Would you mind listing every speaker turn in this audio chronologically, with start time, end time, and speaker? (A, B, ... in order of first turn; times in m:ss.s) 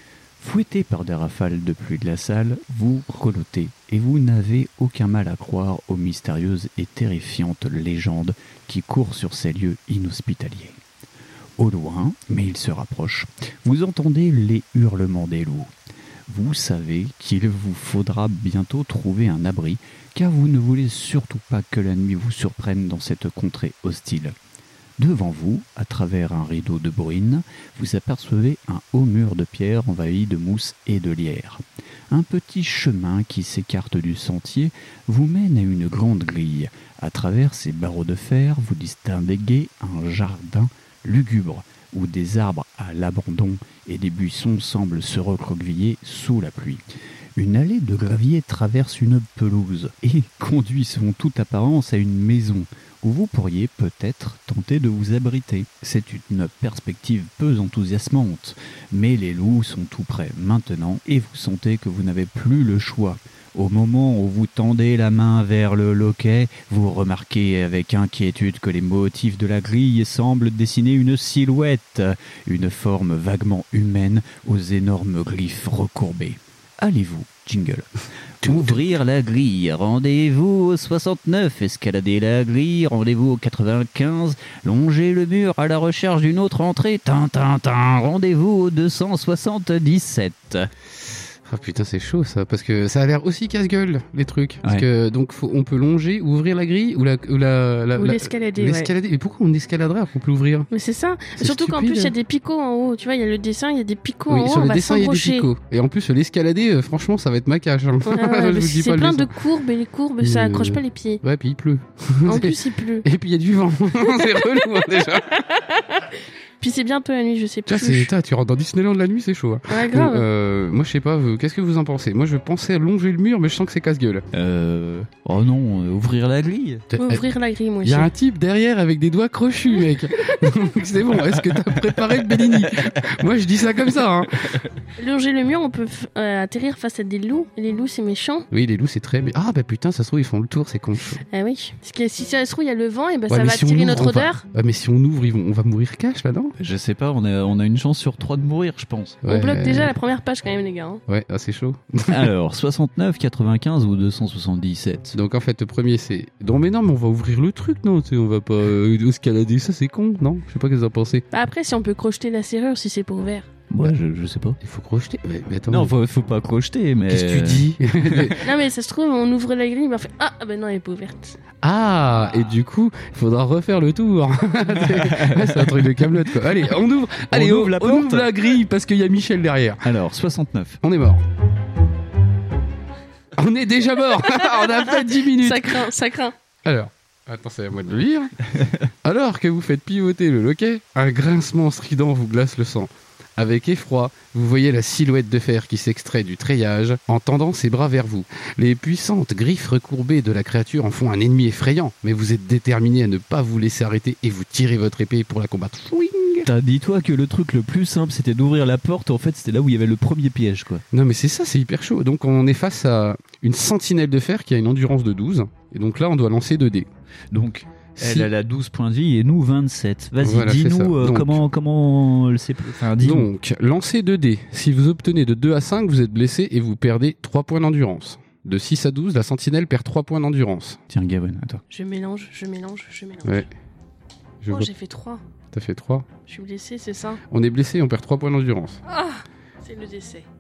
0:00.4-0:10.8 A
0:11.6-0:15.7 A
0:16.3-0:24.4 A
0:25.0-0:46.8 A
0:47.4-1:17.9 A
1:18.4-1:30.7 A
1:18.4-1:18.8 B
1:31.5-1:40.7 B
1:38.0-1:38.9 C
1:40.7-1:45.5 C
1:41.4-1:42.2 B
1:44.3-1:49.3 B
1:48.0-1:51.2 C
1:50.2-1:55.6 B
1:52.2-1:53.1 C
1:55.6-1:56.1 C
1:56.6-1:58.1 C
1:57.7-2:04.3 B
1:59.7-2:00.3 C
2:04.3-2:06.8 A
2:06.9-2:07.3 B
2:07.0-2:08.1 C
2:07.8-2:14.6 B
2:15.0-2:18.5 C
2:18.5-2:21.2 B
2:21.3-2:24.4 C
2:23.3-2:26.6 B
2:26.6-2:29.2 A
2:29.2-2:30.0 B
2:29.3-2:31.0 C
2:31.1-2:32.3 B
2:32.1-2:35.2 A
2:35.1-2:41.2 B
2:41.3-2:43.5 C
2:43.7-2:44.6 A
2:44.6-2:45.9 B
2:45.7-2:48.4 A
2:47.1-2:48.5 B
2:48.4-2:51.4 C
2:51.6-2:59.9 B
2:54.8-2:56.6 A
2:57.3-2:58.3 A
2:59.8-3:00.8 A
3:00.8-3:01.2 B
3:03.4-3:05.9 B
3:04.6-3:06.4 C
3:06.6-3:08.4 B
3:08.9-3:26.5 B
3:26.4-3:30.8 A
3:30.9-3:36.9 B
3:37.3-3:43.3 A
3:38.0-3:38.3 B
3:40.2-3:41.4 B
3:43.0-3:50.8 B
3:50.9-3:51.6 A
3:51.7-3:53.5 C
3:54.4-3:54.7 B
3:54.5-3:55.2 C
3:55.5-3:56.1 B
3:56.3-3:57.2 C
3:57.3-3:58.8 B
3:58.9-4:00.3 C